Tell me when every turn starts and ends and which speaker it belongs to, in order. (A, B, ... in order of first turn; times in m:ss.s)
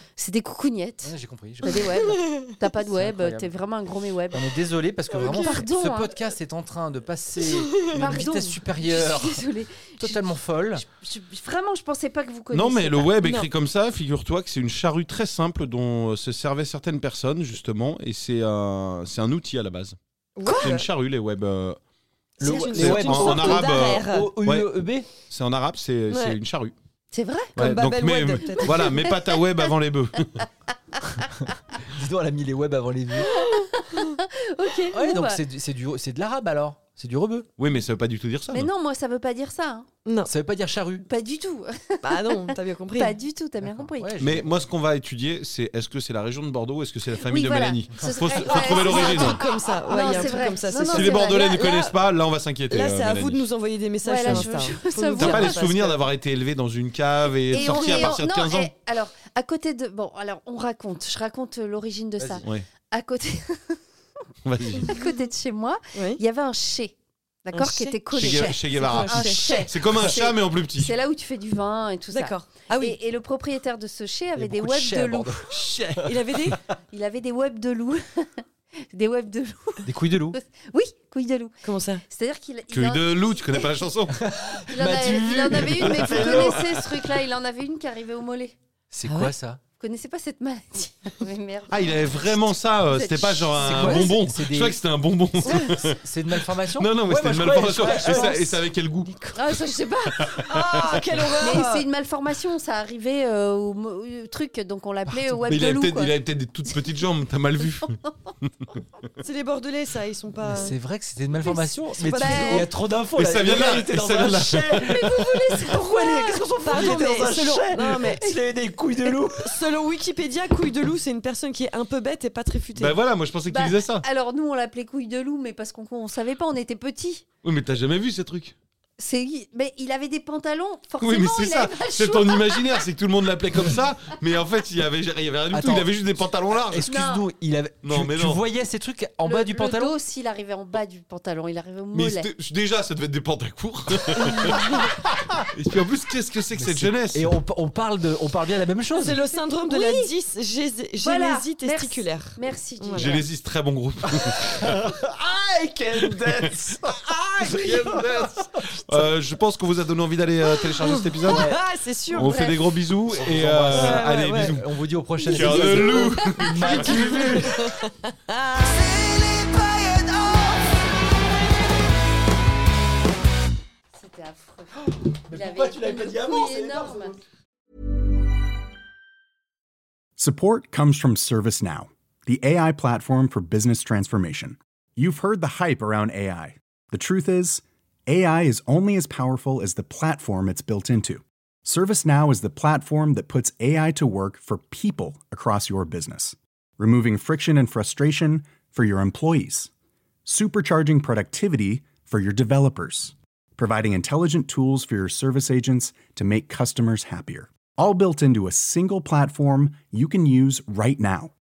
0:00.2-0:01.1 A
0:01.0-0:02.1 B
0:01.6-0:04.5 A
0:02.1-0:02.4 C
0:02.8-0:03.5 B
0:04.3-0:10.8 B
0:05.1-0:05.4 C
0:05.3-0:06.2 A
0:07.4-0:07.8 C
0:07.9-0:10.2 A
0:10.8-0:13.1 A
0:12.5-0:20.0 D
0:13.2-0:13.5 C
0:20.4-0:20.8 C
0:20.5-0:21.8 D
0:22.4-0:24.3 C
0:22.4-0:25.1 B
0:22.6-0:26.7 D
0:26.1-0:26.4 C
0:27.1-0:27.6 A
0:27.6-0:30.5 D
0:27.6-0:28.8 C
0:28.4-0:29.6 A
0:31.2-0:33.4 B
0:33.4-0:35.4 A
0:34.9-0:37.5 B
0:37.6-0:38.7 D
0:38.5-0:39.9 A
0:40.2-0:41.0 B
0:41.0-0:42.2 A
0:42.0-0:43.2 C
0:42.9-0:44.2 A
0:43.6-0:44.5 B
0:44.2-0:49.4 D
0:47.2-0:51.4 A
0:48.2-0:52.0 C
0:50.8-0:53.5 D
0:52.7-0:56.0 C
0:54.0-0:55.6 A
0:55.2-0:58.7 D
0:57.5-1:03.8 A
0:57.6-0:58.1 C
1:02.2-1:02.5 B
1:02.4-1:02.7 D
1:04.4-1:04.9 D
1:04.8-1:15.5 A
1:07.5-1:08.1 C
1:08.1-1:09.6 B
1:08.1-1:10.9 D
1:08.7-1:09.5 C
1:12.1-1:13.0 C
1:14.4-1:16.6 B
1:15.5-1:16.0 D
1:16.0-1:16.6 C
1:16.9-1:18.4 A
1:18.9-1:23.8 A
1:19.8-1:20.4 B
1:21.6-1:22.0 C
1:22.7-1:24.2 D
1:24.1-1:26.6 B
1:24.7-1:28.5 A
1:24.8-1:26.9 D
1:28.9-1:29.6 B
1:29.0-1:29.3 C
1:29.8-1:34.2 A
1:31.7-1:41.4 D
1:33.6-1:34.8 B
1:35.4-1:35.7 C
1:35.4-1:38.6 B
1:37.9-1:38.3 C
1:39.3-1:40.3 A
1:40.3-1:41.8 C
1:41.4-1:46.2 A
1:45.4-1:49.1 D
1:49.2-1:50.8 C
1:50.5-1:59.6 B
1:51.4-1:52.7 A
1:51.8-1:52.7 C
1:53.1-1:55.0 D
1:54.8-1:56.9 A
1:56.6-1:58.4 C
1:59.0-2:03.0 C
2:02.8-2:04.0 D
2:03.4-2:07.2 A
2:07.4-2:08.6 D
2:09.0-2:12.9 A
2:11.0-2:16.9 D
2:15.5-2:16.0 B
2:16.6-2:19.9 B
2:16.8-2:17.3 A
2:17.8-2:18.4 D
2:19.2-2:22.3 A
2:21.9-2:27.3 D
2:24.2-2:24.5 A
2:26.5-2:29.2 B
2:28.9-2:33.2 C
2:29.3-2:30.1 A
2:31.0-2:33.3 A
2:32.9-2:34.8 D
2:34.6-2:38.3 B
2:36.0-2:36.6 D
2:37.4-2:41.5 D
2:40.6-2:42.4 C
2:41.2-2:41.6 B
2:42.1-2:44.7 D
2:42.2-2:42.6 A
2:43.2-2:47.7 B
2:43.7-2:44.6 C
2:45.2-2:49.1 C
2:45.3-2:47.4 D
2:49.0-2:50.1 B
2:49.8-2:50.6 C
2:53.9-2:57.2 A
2:55.2-2:57.1 B
3:00.2-3:19.7 E
3:20.2-3:31.3 E